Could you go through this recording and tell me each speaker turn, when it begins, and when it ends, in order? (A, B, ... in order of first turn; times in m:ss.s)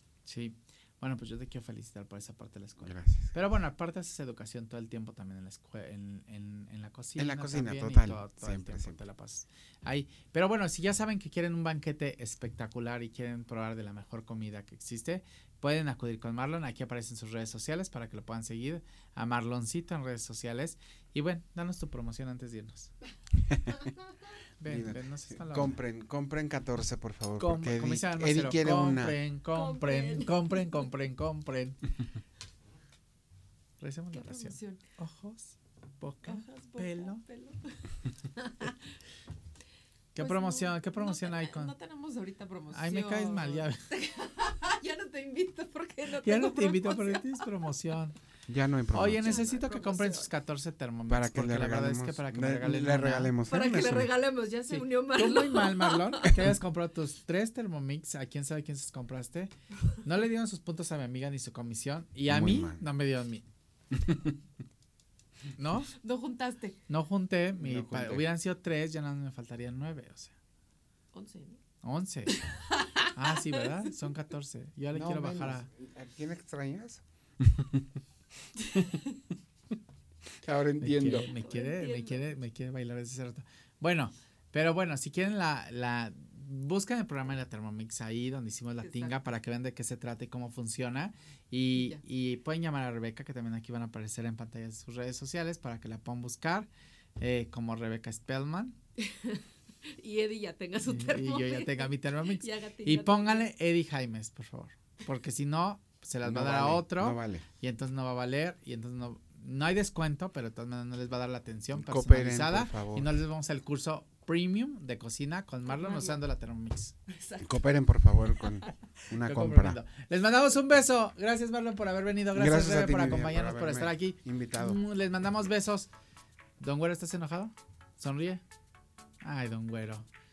0:00.2-0:22.9 A
0:02.8-0:03.4 B
0:07.2-0:09.0 B
0:23.4-0:23.9 B
0:24.6-0:25.8 A
0:24.6-0:29.2 B
0:27.4-0:31.9 A
0:29.5-0:30.9 C
0:33.8-0:37.2 A
0:34.1-0:34.8 C
0:36.2-0:38.9 C
0:40.1-0:41.7 A
0:40.2-0:47.5 C
0:42.7-0:43.8 A
0:46.2-0:48.2 A
0:48.5-0:49.4 B
0:48.9-0:53.3 A
0:49.1-0:50.3 C
0:51.1-0:54.1 B
0:53.4-0:56.3 C
0:54.7-1:03.4 A
1:02.3-1:02.8 B
1:03.9-1:04.4 B
1:05.6-1:05.9 A
1:06.0-1:06.8 C
1:06.9-1:10.4 A
1:07.6-1:08.2 B
1:11.1-1:11.6 C
1:11.8-1:12.4 A
1:12.3-1:13.6 C
1:13.1-1:15.7 A
1:14.9-1:18.0 B
1:18.6-1:19.2 C
1:18.7-1:19.0 B
1:20.4-1:21.3 B
1:20.8-1:36.7 A
1:21.1-1:22.3 C
1:28.8-1:29.2 C
1:31.7-1:32.0 C
1:37.2-1:38.8 A
1:39.0-1:43.5 C
1:40.8-1:56.9 A
1:46.2-1:47.4 B
1:51.7-1:53.1 B
1:55.7-1:56.2 C
1:57.1-1:57.5 C
1:57.4-1:59.8 B
1:58.4-1:58.7 C
1:59.2-2:05.9 A
2:02.3-2:04.8 B
2:06.6-2:08.4 A
2:09.2-2:10.1 A